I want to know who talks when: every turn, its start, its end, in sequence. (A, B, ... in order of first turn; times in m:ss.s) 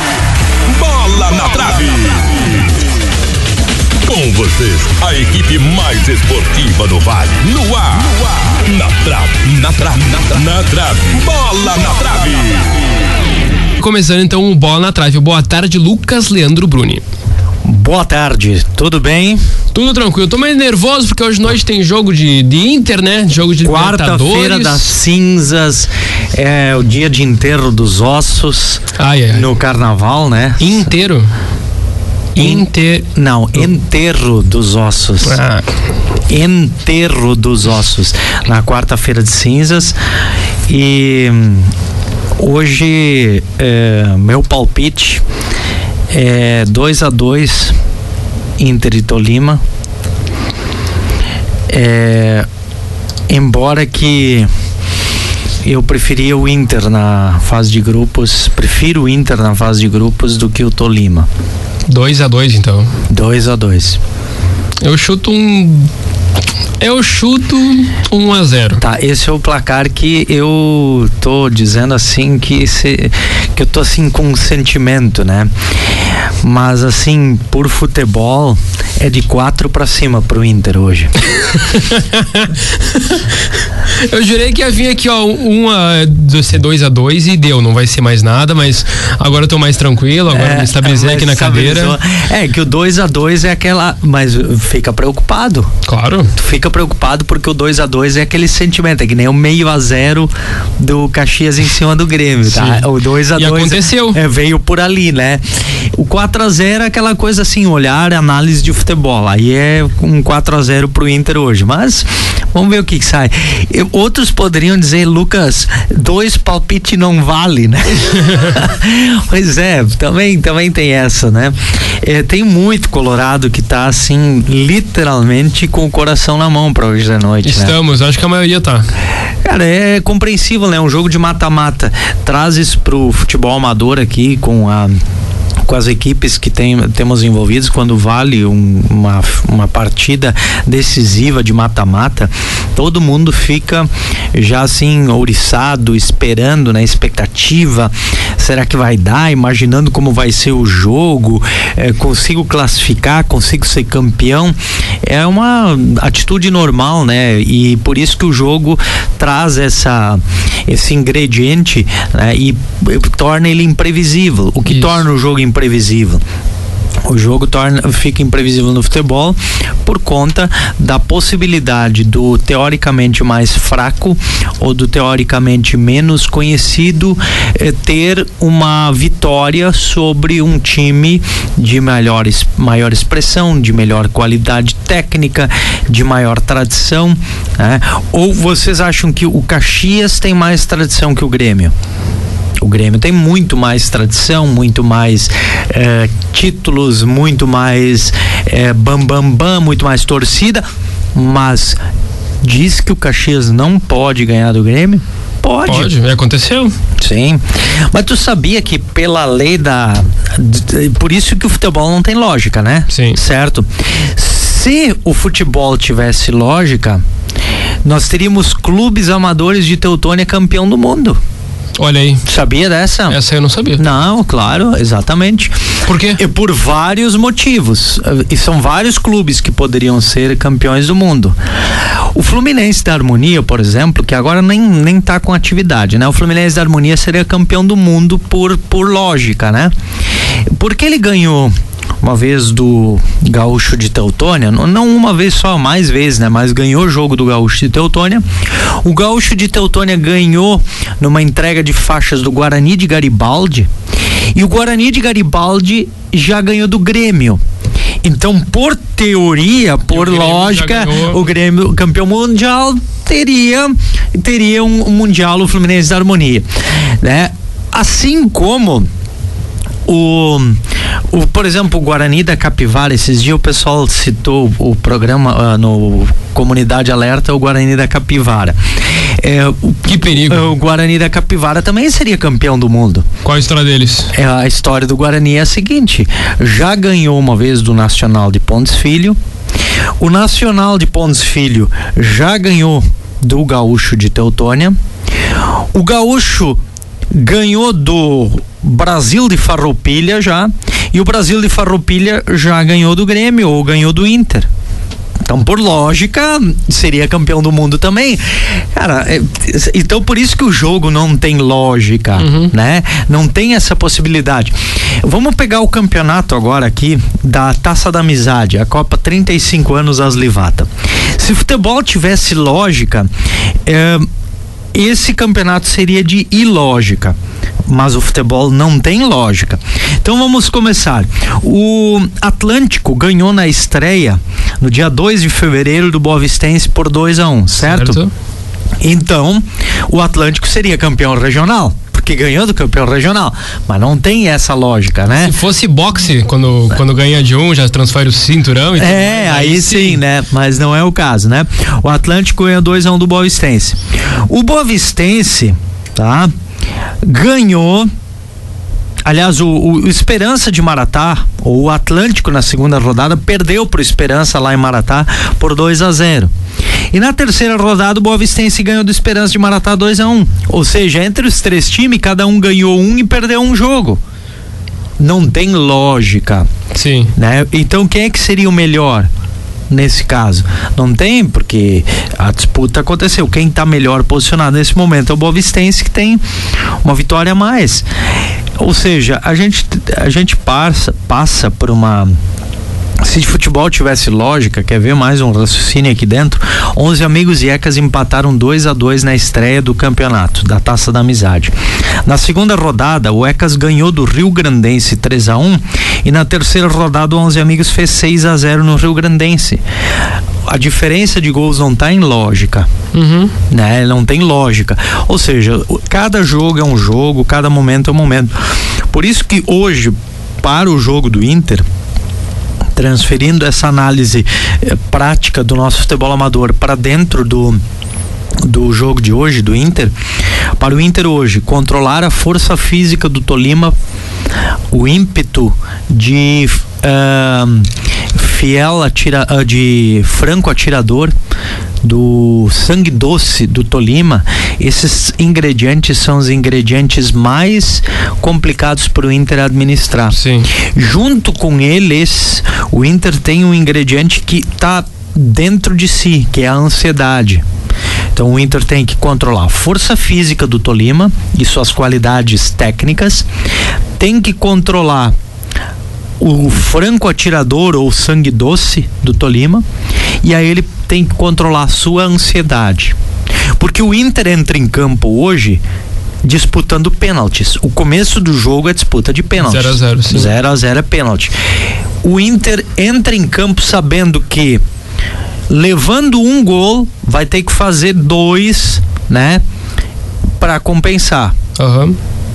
0:00.7-0:02.8 A
0:04.0-0:12.8 A
0:13.8-0:17.0 B
0:17.6-0:19.5 C
0:19.7-0:24.9 B
0:23.6-0:30.9 C
0:29.0-0:29.5 B
0:30.6-0:31.3 B
0:32.3-0:33.0 B
0:32.4-0:35.4 C
0:35.2-0:35.7 B
0:36.3-0:40.0 C
0:40.7-0:41.7 C
0:42.4-0:45.2 C
0:46.1-0:47.7 C
0:48.6-0:49.6 C
0:51.7-0:52.5 C
0:53.3-0:54.5 C
0:55.6-1:01.3 C
1:01.9-1:02.9 B
1:03.1-1:04.0 C
1:04.8-1:05.9 B
1:06.8-1:08.8 B
1:08.8-1:15.5 C
1:16.4-1:21.1 C
1:21.4-1:32.0 B
1:30.3-1:35.7 C
1:35.8-1:36.3 B
1:36.3-2:07.7 C
1:42.5-1:44.2 B
2:07.4-2:08.9 B
2:09.4-2:15.0 C
2:15.6-2:46.2 C
2:44.6-2:45.0 B
2:47.0-3:11.7 C
3:12.6-3:20.6 C
3:21.1-3:21.8 C
3:22.4-3:25.9 C
3:25.7-3:26.8 B
3:27.0-3:37.0 C
3:32.9-3:33.2 B
3:37.8-3:41.2 C
3:41.8-3:42.2 B
3:42.2-3:43.2 C
3:43.1-3:43.8 B
3:43.8-3:45.5 C
3:45.8-3:46.2 B
3:46.2-3:51.4 C
3:52.1-3:59.7 C
4:00.5-4:13.7 C
4:14.3-4:17.4 C
4:18.0-4:28.9 C
4:19.9-4:21.2 B
4:29.8-4:30.6 C
4:31.1-4:43.1 C
4:39.8-4:40.5 B
4:43.2-4:44.1 B
4:44.1-4:49.2 C
4:50.0-4:54.8 C
4:55.7-4:56.6 C
4:57.1-5:04.5 C
5:05.2-5:23.1 C
5:12.2-5:12.5 B
5:23.6-5:24.1 C
5:24.7-5:27.2 C
5:27.7-5:38.0 C
5:37.6-5:38.1 B
5:38.8-5:45.3 C
5:45.2-5:50.0 B
5:48.8-5:56.3 C
5:57.0-5:57.9 C
5:59.0-6:06.3 C
6:06.9-6:14.0 C
6:15.0-6:16.5 C
6:16.7-6:17.1 B
6:17.2-6:19.1 C
6:19.7-6:26.2 C
6:26.8-6:27.8 C
6:28.6-6:32.2 C
6:33.0-6:41.5 C
6:42.0-6:49.6 C
6:50.4-6:52.7 C
6:52.9-6:53.3 B
6:53.5-6:58.3 C
6:58.9-7:01.6 C
7:02.8-7:07.6 C
7:08.4-7:09.9 C
7:10.6-7:13.7 C
7:14.7-7:21.1 C
7:21.8-7:37.4 C
7:30.1-7:30.5 B
7:38.1-7:43.3 C
7:44.0-7:45.1 C
7:46.2-7:49.6 C
7:50.2-7:52.9 C
7:53.6-7:55.6 C
7:56.2-8:01.3 C
7:59.4-8:00.3 B
8:02.0-8:04.6 C
8:05.5-8:09.4 C
8:10.4-8:11.3 C
8:11.6-8:12.0 B